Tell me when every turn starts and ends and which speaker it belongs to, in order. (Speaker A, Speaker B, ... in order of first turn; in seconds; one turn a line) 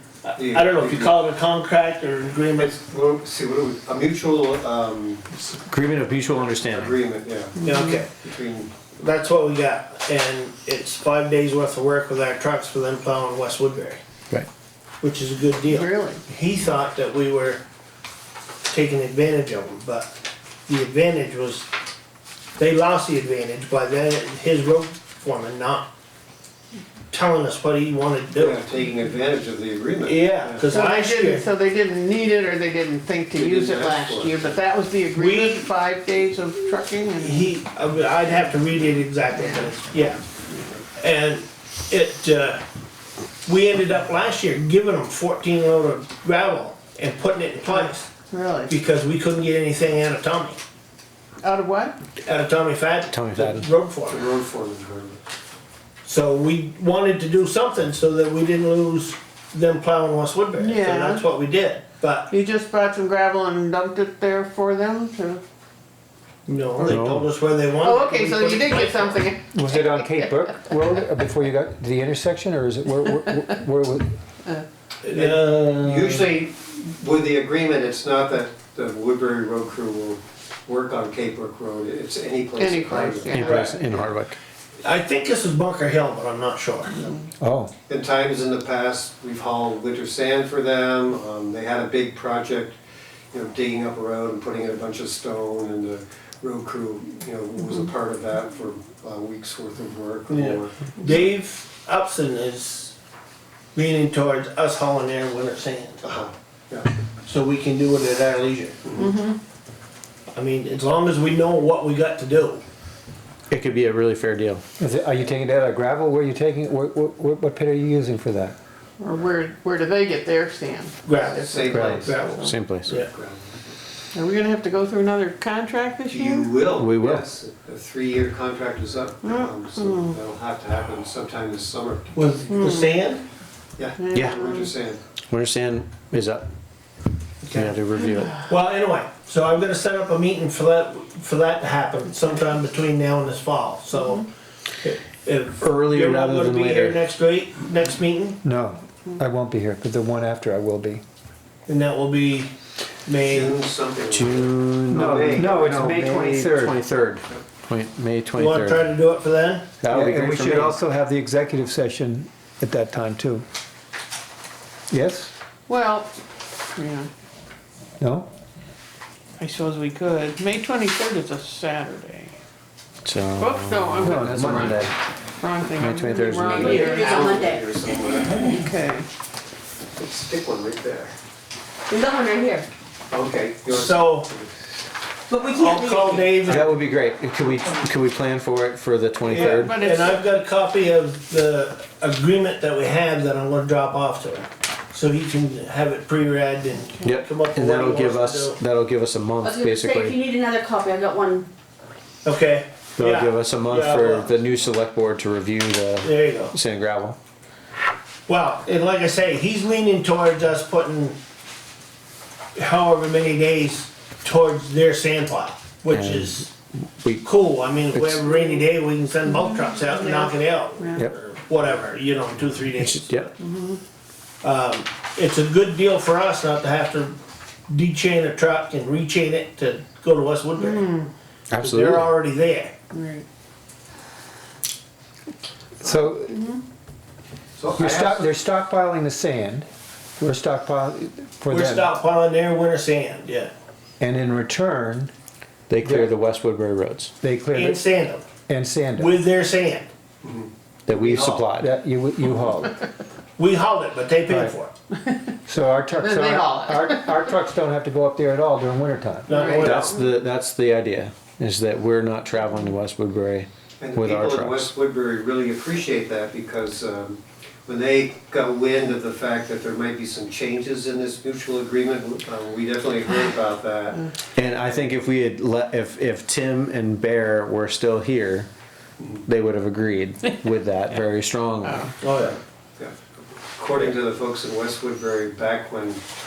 Speaker A: 0.2-2.7
Speaker B: 0.3-1.2
Speaker B: 2.6-5.6
Speaker C: 5.7-7.0
Speaker B: 6.2-7.6
Speaker D: 7.5-8.0
Speaker A: 7.6-8.1
Speaker B: 8.2-8.7
Speaker A: 8.9-14.0
Speaker A: 15.0-17.6
Speaker D: 15.6-16.2
Speaker A: 18.7-20.1
Speaker A: 20.7-21.7
Speaker A: 22.6-25.9
Speaker A: 27.1-28.6
Speaker B: 28.3-30.7
Speaker A: 30.0-31.4
Speaker D: 30.6-37.5
Speaker B: 33.3-34.6
Speaker A: 35.1-35.7
Speaker A: 37.2-40.2
Speaker D: 39.4-39.7
Speaker A: 41.0-42.6
Speaker A: 43.4-48.1
Speaker D: 47.7-48.8
Speaker A: 48.7-50.6
Speaker D: 51.4-52.0
Speaker A: 52.2-54.3
Speaker C: 53.1-53.7
Speaker B: 54.1-55.2
Speaker A: 56.0-62.3
Speaker D: 60.6-61.2
Speaker D: 62.3-65.4
Speaker A: 66.5-69.3
Speaker D: 66.8-67.0
Speaker C: 66.9-67.2
Speaker D: 67.7-70.0
Speaker E: 69.5-74.1
Speaker A: 75.0-76.3
Speaker B: 75.1-83.6
Speaker D: 82.5-83.7
Speaker C: 83.3-84.3
Speaker A: 83.3-84.0
Speaker A: 84.8-87.2
Speaker E: 87.4-87.7
Speaker B: 87.9-92.8
Speaker B: 93.3-100.8
Speaker A: 100.3-102.9
Speaker A: 103.7-106.1
Speaker B: 106.0-106.9
Speaker A: 107.2-109.1
Speaker D: 109.0-109.4
Speaker A: 110.3-112.6
Speaker C: 113.5-114.6
Speaker E: 114.8-118.6
Speaker D: 119.0-122.6
Speaker A: 121.0-123.1
Speaker B: 121.3-122.2
Speaker C: 121.7-122.9
Speaker B: 122.9-123.7
Speaker D: 124.1-126.6
Speaker B: 126.0-132.2
Speaker C: 126.7-127.2
Speaker D: 129.2-130.2
Speaker A: 132.1-133.2
Speaker D: 132.5-133.0
Speaker B: 133.8-135.0
Speaker D: 134.0-134.7
Speaker C: 134.1-134.4
Speaker C: 135.3-136.4
Speaker A: 137.4-137.7
Speaker C: 137.5-138.4
Speaker A: 138.4-144.2
Speaker A: 144.8-148.4
Speaker C: 145.6-147.0
Speaker E: 148.4-151.0
Speaker A: 151.7-152.5
Speaker A: 153.1-153.6
Speaker B: 153.2-155.8
Speaker C: 154.1-158.9
Speaker E: 154.9-156.8
Speaker A: 158.3-159.7
Speaker C: 159.8-160.8
Speaker E: 159.9-163.4
Speaker E: 164.9-165.3
Speaker D: 165.7-166.1
Speaker D: 166.7-167.1
Speaker E: 168.0-168.3
Speaker D: 169.4-172.3
Speaker C: 173.0-174.8
Speaker D: 173.4-174.3
Speaker E: 174.0-174.9
Speaker D: 175.4-177.4
Speaker C: 175.8-177.0
Speaker B: 176.6-178.6
Speaker F: 177.2-177.6
Speaker D: 178.5-179.1
Speaker B: 179.9-181.2
Speaker F: 181.9-182.6
Speaker B: 183.1-184.5
Speaker A: 183.7-184.3
Speaker F: 185.3-186.2
Speaker A: 185.4-186.7
Speaker C: 186.4-189.8
Speaker A: 189.3-198.6
Speaker D: 189.3-190.2
Speaker C: 197.0-200.2
Speaker F: 199.4-200.0
Speaker F: 200.6-201.4
Speaker A: 202.2-204.3
Speaker C: 203.0-207.2
Speaker A: 206.0-206.5
Speaker A: 208.3-211.2
Speaker A: 212.6-216.5
Speaker C: 215.9-217.2
Speaker A: 217.2-223.3
Speaker C: 217.9-218.2
Speaker D: 219.2-221.0
Speaker C: 222.8-223.3
Speaker D: 223.4-223.8
Speaker A: 224.4-227.2
Speaker A: 227.7-231.0
Speaker D: 230.6-231.1
Speaker C: 231.5-232.1
Speaker A: 231.6-232.7
Speaker D: 232.9-233.2
Speaker E: 235.8-236.5
Speaker B: 237.6-238.3
Speaker E: 237.7-239.7
Speaker E: 240.2-241.9
Speaker A: 241.5-243.5
Speaker E: 244.0-245.1
Speaker C: 245.7-247.1
Speaker E: 245.8-246.1
Speaker E: 247.2-247.8
Speaker A: 247.5-248.2
Speaker E: 248.5-249.1
Speaker A: 249.0-249.9
Speaker B: 250.2-250.5
Speaker C: 250.9-251.7
Speaker B: 251.0-251.4
Speaker E: 251.4-252.7
Speaker A: 253.4-254.7
Speaker E: 254.3-254.5
Speaker D: 255.1-255.4
Speaker E: 255.4-259.5
Speaker D: 255.9-257.3
Speaker A: 259.3-260.0
Speaker D: 259.3-259.8
Speaker C: 259.6-264.7
Speaker B: 263.8-274.1
Speaker C: 274.3-278.5
Speaker C: 279.2-281.9
Speaker D: 281.6-281.9
Speaker A: 282.0-282.4
Speaker B: 282.1-282.9
Speaker B: 283.6-286.0